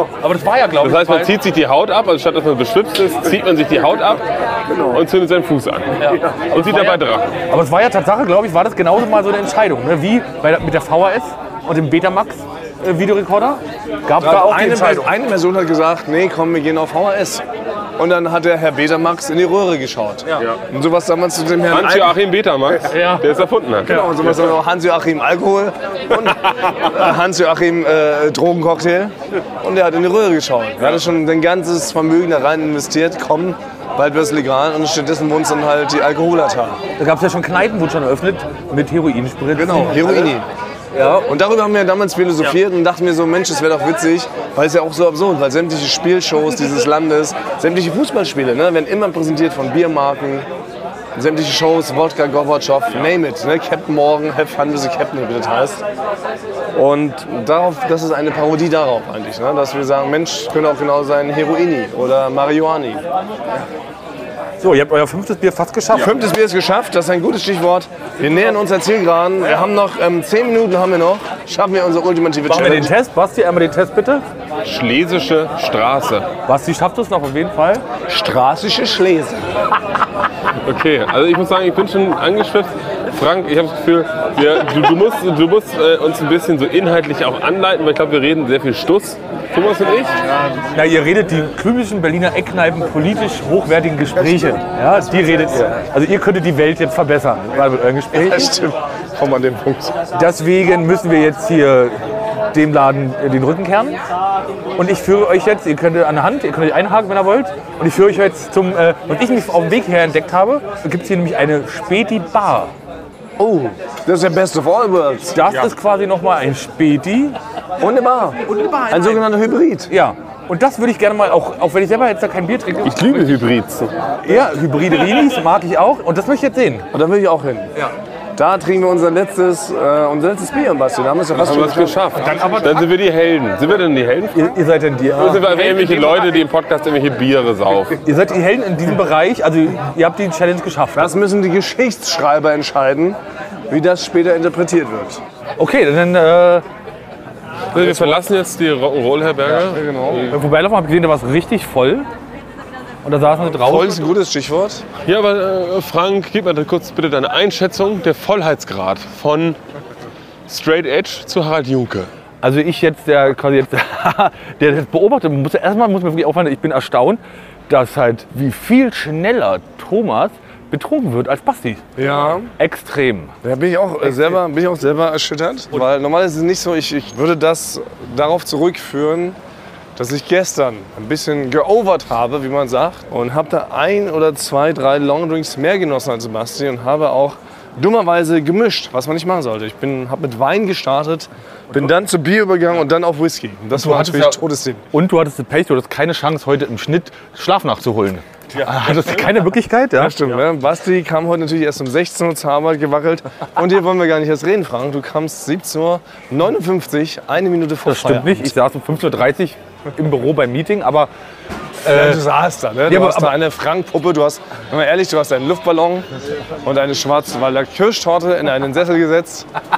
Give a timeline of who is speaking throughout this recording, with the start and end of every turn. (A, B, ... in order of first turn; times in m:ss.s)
0:00.2-0:01.3 A
0:00.8-0:07.3 B
0:06.0-0:07.0 A
0:07.5-0:15.1 A
0:14.2-0:17.4 C
0:18.0-0:22.1 C
0:21.7-0:24.1 B
0:22.8-0:23.2 A
0:23.8-0:36.8 C
0:37.0-0:40.3 A
0:39.5-0:50.5 C
0:51.1-0:55.8 C
0:56.7-1:03.0 C
1:04.6-1:06.1 A
1:05.9-1:12.9 C
1:12.5-1:14.2 A
1:14.6-1:16.3 B
1:16.4-1:17.8 A
1:18.1-1:19.5 C
1:20.6-1:30.2 B
1:30.7-1:38.5 A
1:38.1-1:39.9 C
1:40.1-1:42.0 A
1:42.5-1:44.0 A
1:44.8-1:52.7 A
1:53.4-1:55.4 C
1:55.3-1:57.4 A
1:57.8-1:59.9 C
1:58.5-1:59.2 A
1:59.9-2:03.1 A
2:02.8-2:03.9 B
2:04.2-2:06.9 A
2:06.9-2:07.7 C
2:08.4-2:12.0 C
2:11.3-2:14.5 B
2:12.2-2:12.8 A
2:14.3-2:16.3 A
2:15.1-2:18.0 B
2:18.0-2:21.1 A
2:20.9-2:25.2 C
2:25.6-2:26.6 A
2:27.7-2:30.2 B
2:27.7-2:28.2 C
2:29.5-2:30.3 C
2:30.3-2:32.1 A
2:33.0-2:33.9 A
2:33.6-2:34.8 C
2:35.0-2:39.6 B
2:40.5-2:42.1 B
2:42.4-2:51.8 A
2:52.0-2:52.5 C
2:52.6-2:53.3 A
2:53.4-2:59.4 C
3:00.0-3:14.8 C
3:13.7-3:14.4 A
3:14.9-3:20.2 A
3:18.6-3:19.1 B
3:20.0-3:28.5 C
3:27.8-3:31.1 A
3:31.8-3:32.2 A
3:31.9-3:36.1 C
3:32.9-3:33.3 A
3:36.6-3:39.5 C